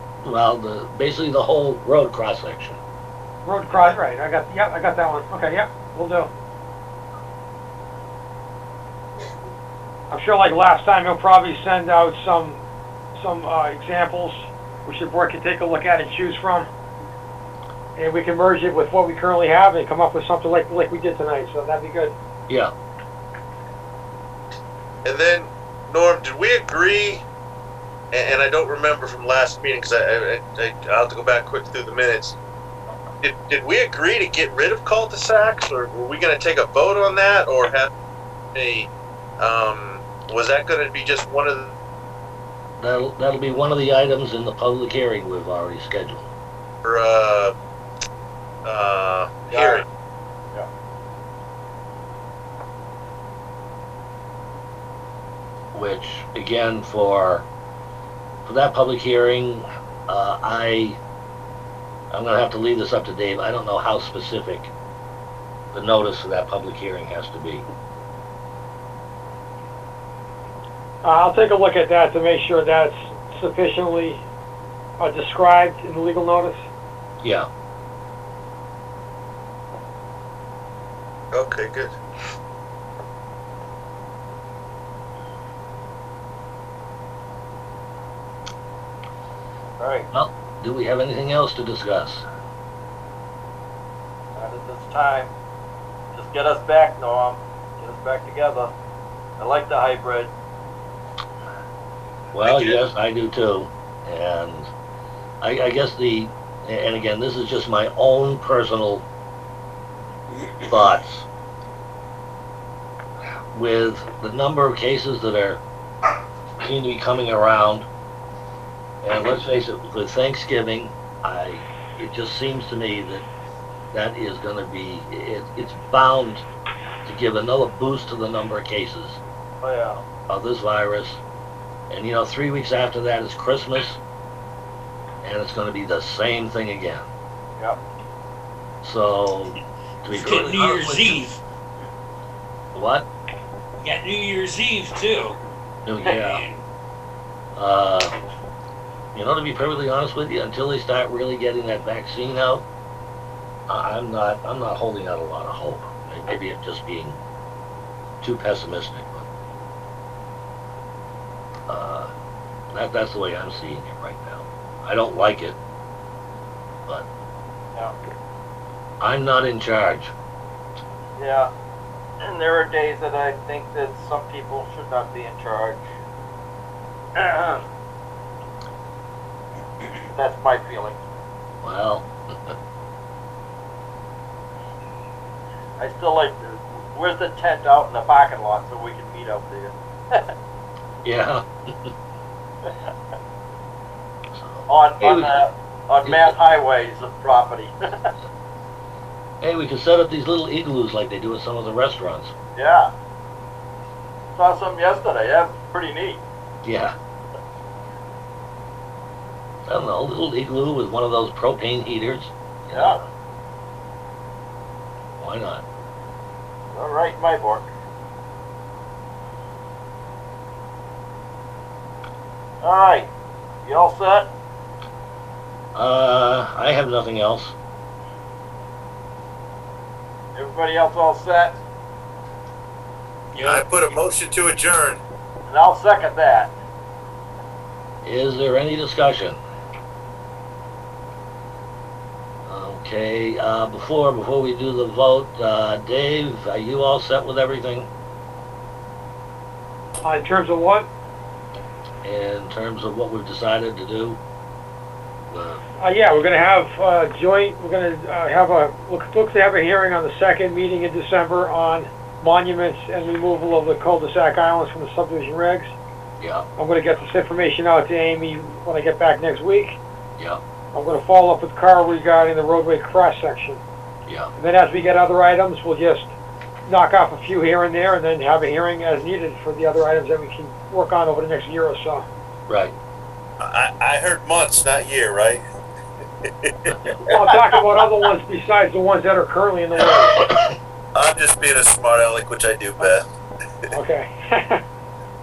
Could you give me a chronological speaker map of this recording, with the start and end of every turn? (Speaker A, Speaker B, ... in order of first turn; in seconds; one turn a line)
Speaker A: 0.2-2.8
Speaker B: 3.4-6.3
Speaker B: 10.1-12.6
Speaker B: 13.2-16.7
Speaker B: 18.0-22.1
Speaker C: 25.0-27.2
Speaker C: 28.1-32.4
Speaker C: 33.2-37.9
Speaker C: 38.5-41.7
Speaker A: 42.8-46.3
Speaker C: 46.8-47.5
Speaker C: 48.6-49.8
Speaker D: 49.5-49.8
Speaker A: 55.7-57.5
Speaker A: 58.4-61.0
Speaker A: 62.1-64.7
Speaker A: 65.7-67.7
Speaker B: 71.0-74.2
Speaker B: 75.0-76.6
Speaker A: 77.2-77.5
Speaker C: 81.3-81.9
Speaker D: 89.8-90.1
Speaker A: 90.1-92.2
Speaker D: 94.3-95.3
Speaker D: 96.1-98.7
Speaker D: 99.4-100.3
Speaker A: 102.3-104.7
Speaker C: 102.4-102.8
Speaker A: 105.4-109.0
Speaker A: 110.7-111.3
Speaker A: 113.5-115.6
Speaker A: 116.6-117.9
Speaker A: 119.0-123.3
Speaker A: 123.9-126.5
Speaker A: 127.0-129.2
Speaker D: 129.6-130.0
Speaker A: 130.3-131.2
Speaker A: 131.9-134.0
Speaker A: 135.2-137.1
Speaker A: 138.8-141.2
Speaker E: 140.1-141.4
Speaker A: 142.7-143.1
Speaker E: 143.8-145.4
Speaker A: 145.8-146.4
Speaker E: 146.1-146.6
Speaker A: 147.6-148.1
Speaker A: 149.1-152.6
Speaker A: 153.7-157.2
Speaker A: 158.2-159.3
Speaker A: 161.7-162.1
Speaker A: 162.7-165.6
Speaker A: 169.0-170.1
Speaker D: 171.2-171.5
Speaker D: 172.2-175.9
Speaker D: 177.2-177.6
Speaker D: 180.1-181.0
Speaker A: 181.6-182.5
Speaker D: 185.8-190.3
Speaker A: 191.0-191.9
Speaker A: 194.3-195.4
Speaker D: 194.7-198.0
Speaker A: 196.0-196.3
Speaker A: 199.4-202.3
Speaker D: 202.6-202.9
Speaker D: 204.3-206.2
Speaker A: 206.6-206.9
Speaker A: 209.6-213.0
Speaker D: 212.7-213.0
Speaker A: 215.2-215.6
Speaker D: 216.7-217.7
Speaker D: 222.6-223.1
Speaker D: 223.6-224.3
Speaker A: 225.7-227.5
Speaker D: 230.3-231.6
Speaker E: 233.3-233.7
Speaker C: 233.4-235.0
Speaker D: 235.5-236.5
Speaker A: 238.0-239.4
Speaker A: 242.4-247.9
Speaker B: 250.0-250.9
Speaker A: 252.0-254.2
Speaker A: 255.3-255.6
Speaker B: 255.8-265.7
Speaker A: 266.2-266.4
Speaker B: 266.6-269.8
Speaker B: 270.7-273.6
Speaker B: 274.4-276.1
Speaker B: 276.6-282.1
Speaker A: 282.5-282.7
Speaker C: 283.4-285.4
Speaker C: 286.2-287.1
Speaker B: 287.0-290.3
Speaker C: 290.9-293.1
Speaker B: 293.7-294.6